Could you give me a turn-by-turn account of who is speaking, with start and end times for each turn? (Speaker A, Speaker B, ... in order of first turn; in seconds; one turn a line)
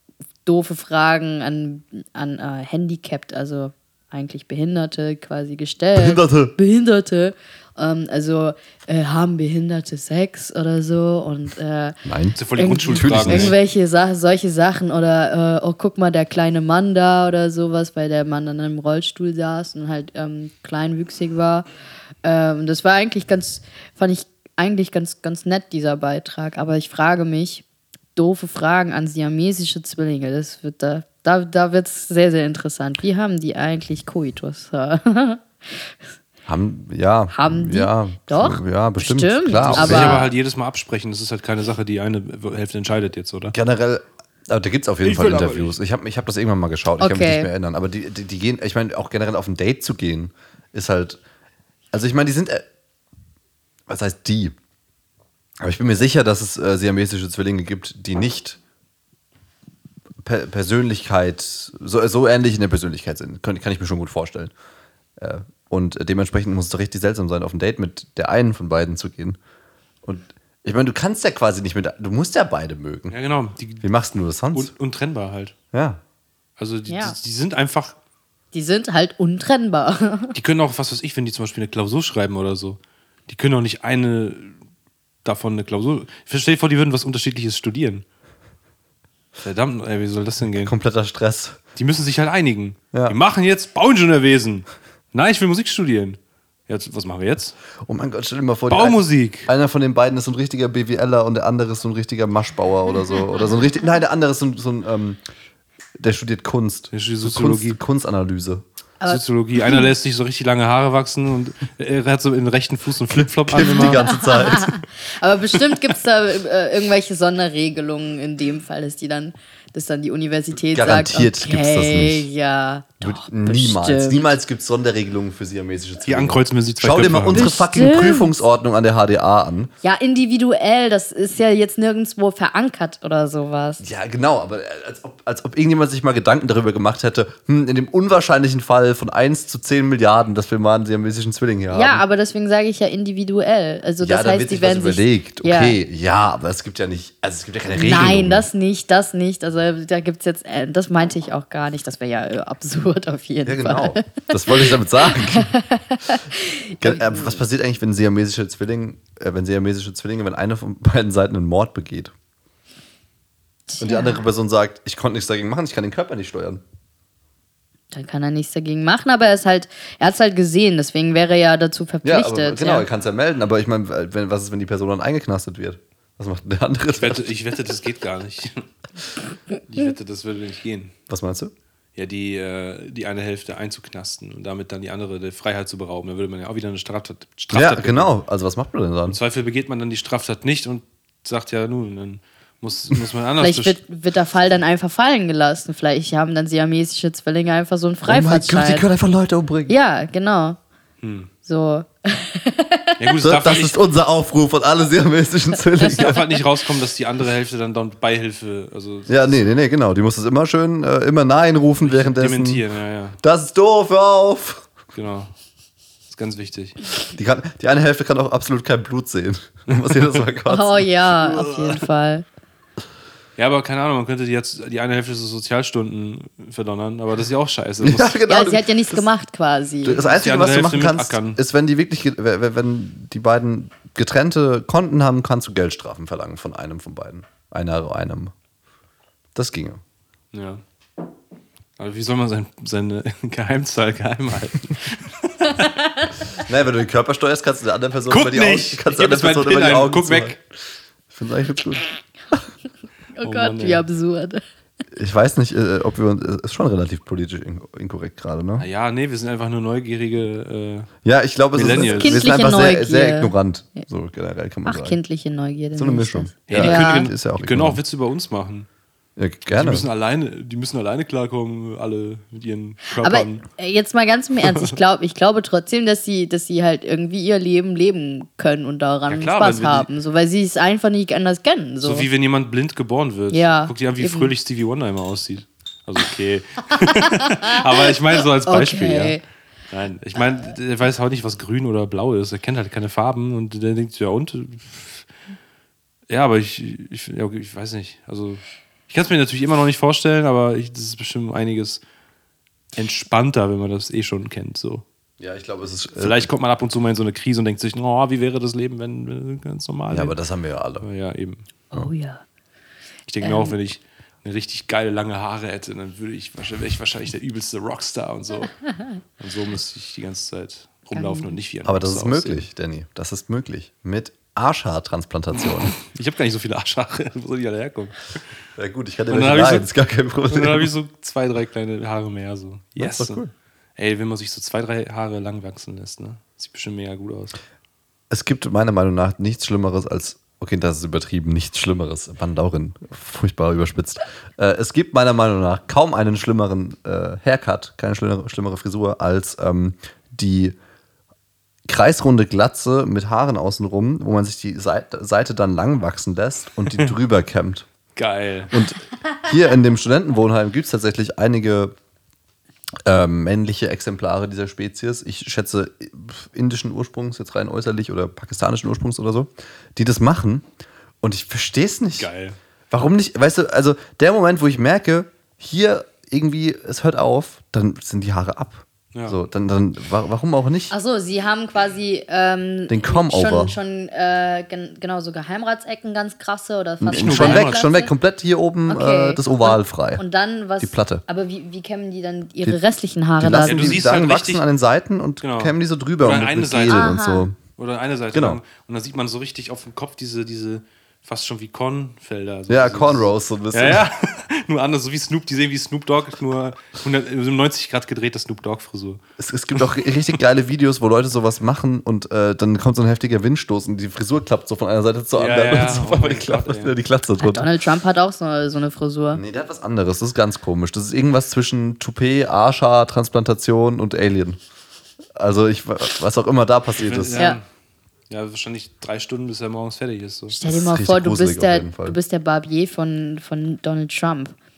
Speaker A: 0.5-12.0
Speaker B: 6.0-6.5
Speaker B: 12.1-12.4
Speaker C: 12.4-13.6
Speaker A: 12.6-21.7
Speaker B: 13.0-13.6
Speaker A: 22.2-27.6
Speaker A: 28.2-35.9
Speaker B: 36.5-40.2
Speaker A: 37.3-40.3
Speaker C: 39.6-43.6
Speaker B: 43.5-51.2
Speaker C: 45.0-45.8
Speaker A: 47.0-47.5
Speaker B: 51.9-52.6
Speaker B: 53.9-54.5
Speaker B: 55.6-58.6
Speaker B: 60.2-64.5
Speaker B: 65.2-69.4
Speaker B: 70.0-73.2
Speaker C: 73.1-73.8
Speaker B: 73.8-74.7
Speaker C: 74.5-75.5
Speaker B: 75.7-76.0
Speaker C: 76.6-78.0
Speaker A: 76.9-77.2
Speaker A: 78.5-80.3
Speaker C: 80.3-84.5
Speaker C: 85.2-88.0
Speaker C: 89.4-90.7
Speaker B: 90.6-91.6
Speaker C: 91.8-97.6
Speaker B: 97.8-105.2
Speaker C: 98.7-99.5
Speaker B: 106.0-108.6
Speaker C: 106.9-107.8
Speaker A: 109.0-109.8
Speaker C: 109.1-114.0
Speaker B: 113.2-114.7
Speaker A: 113.6-124.2
Speaker B: 120.6-122.3
Speaker B: 123.0-129.7
Speaker C: 126.1-127.5
Speaker A: 127.3-128.3
Speaker A: 129.8-133.8
Speaker B: 133.8-142.0
Speaker A: 141.7-145.8
Speaker B: 144.0-148.5
Speaker A: 147.7-154.7
Speaker B: 153.4-155.5
Speaker A: 155.3-157.4
Speaker B: 156.8-162.1
Speaker A: 163.7-164.2
Speaker B: 163.8-166.6
Speaker A: 167.9-172.9
Speaker B: 172.0-177.3
Speaker C: 177.0-178.7
Speaker C: 179.6-180.9
Speaker B: 181.1-181.5
Speaker C: 182.0-188.1
Speaker B: 187.5-189.2
Speaker C: 189.1-193.8
Speaker A: 193.4-198.8
Speaker B: 198.1-199.7
Speaker A: 199.7-200.6
Speaker C: 201.0-201.3
Speaker A: 201.4-203.0
Speaker C: 203.0-203.8
Speaker B: 203.2-206.2
Speaker C: 205.8-209.5
Speaker B: 209.1-212.6
Speaker C: 211.8-213.2
Speaker B: 213.2-214.7
Speaker C: 214.9-215.3
Speaker C: 216.1-216.8
Speaker B: 217.1-221.9
Speaker C: 219.7-220.0
Speaker A: 220.5-222.2
Speaker C: 223.4-228.2
Speaker B: 227.8-229.1
Speaker A: 228.3-230.0
Speaker B: 229.8-238.3
Speaker C: 230.0-231.4
Speaker B: 239.3-239.8
Speaker C: 240.3-240.6
Speaker C: 241.8-245.7
Speaker B: 246.4-250.4
Speaker C: 248.1-250.4
Speaker B: 251.1-252.4
Speaker A: 253.2-254.4
Speaker C: 253.2-253.8
Speaker B: 254.9-258.7
Speaker C: 258.6-260.9
Speaker B: 261.1-265.0
Speaker C: 261.5-262.2
Speaker A: 261.7-263.3
Speaker A: 264.7-267.1
Speaker B: 265.8-267.8
Speaker C: 266.5-268.7
Speaker B: 269.2-269.9
Speaker C: 269.5-273.4
Speaker A: 272.9-282.1
Speaker C: 274.5-274.8
Speaker C: 279.1-279.9
Speaker C: 281.8-289.2
Speaker A: 283.3-284.3
Speaker A: 286.9-289.2
Speaker C: 289.7-295.1
Speaker C: 296.1-301.8
Speaker C: 302.8-304.8
Speaker B: 305.2-306.3
Speaker C: 306.0-310.1
Speaker B: 309.9-310.9
Speaker C: 310.8-311.4
Speaker A: 311.7-312.2
Speaker C: 313.1-318.6
Speaker A: 313.2-313.5
Speaker C: 319.2-322.5
Speaker A: 320.9-321.3
Speaker B: 321.6-325.7
Speaker C: 325.8-328.2
Speaker B: 328.6-330.7
Speaker C: 329.1-329.7
Speaker C: 330.3-333.2
Speaker B: 332.8-333.3
Speaker C: 333.8-337.4
Speaker B: 338.1-350.6
Speaker B: 351.7-357.7
Speaker C: 358.0-358.6
Speaker B: 358.5-361.7
Speaker B: 362.9-370.5
Speaker B: 371.0-372.1
Speaker C: 372.0-372.4
Speaker B: 372.7-380.7
Speaker A: 380.7-387.9
Speaker B: 382.7-383.6
Speaker B: 386.8-390.0
Speaker C: 386.9-387.6
Speaker A: 388.7-393.8
Speaker B: 390.6-391.0
Speaker B: 393.2-397.4
Speaker C: 393.3-394.4
Speaker C: 395.2-397.0
Speaker A: 396.7-397.3
Speaker C: 397.5-409.0
Speaker B: 398.1-398.4
Speaker B: 402.5-403.9
Speaker B: 409.2-417.5
Speaker C: 415.1-416.8
Speaker A: 417.2-419.2
Speaker B: 419.1-424.4
Speaker B: 425.2-427.2
Speaker C: 426.8-427.4
Speaker C: 428.1-430.4
Speaker A: 430.3-434.4
Speaker B: 430.5-432.0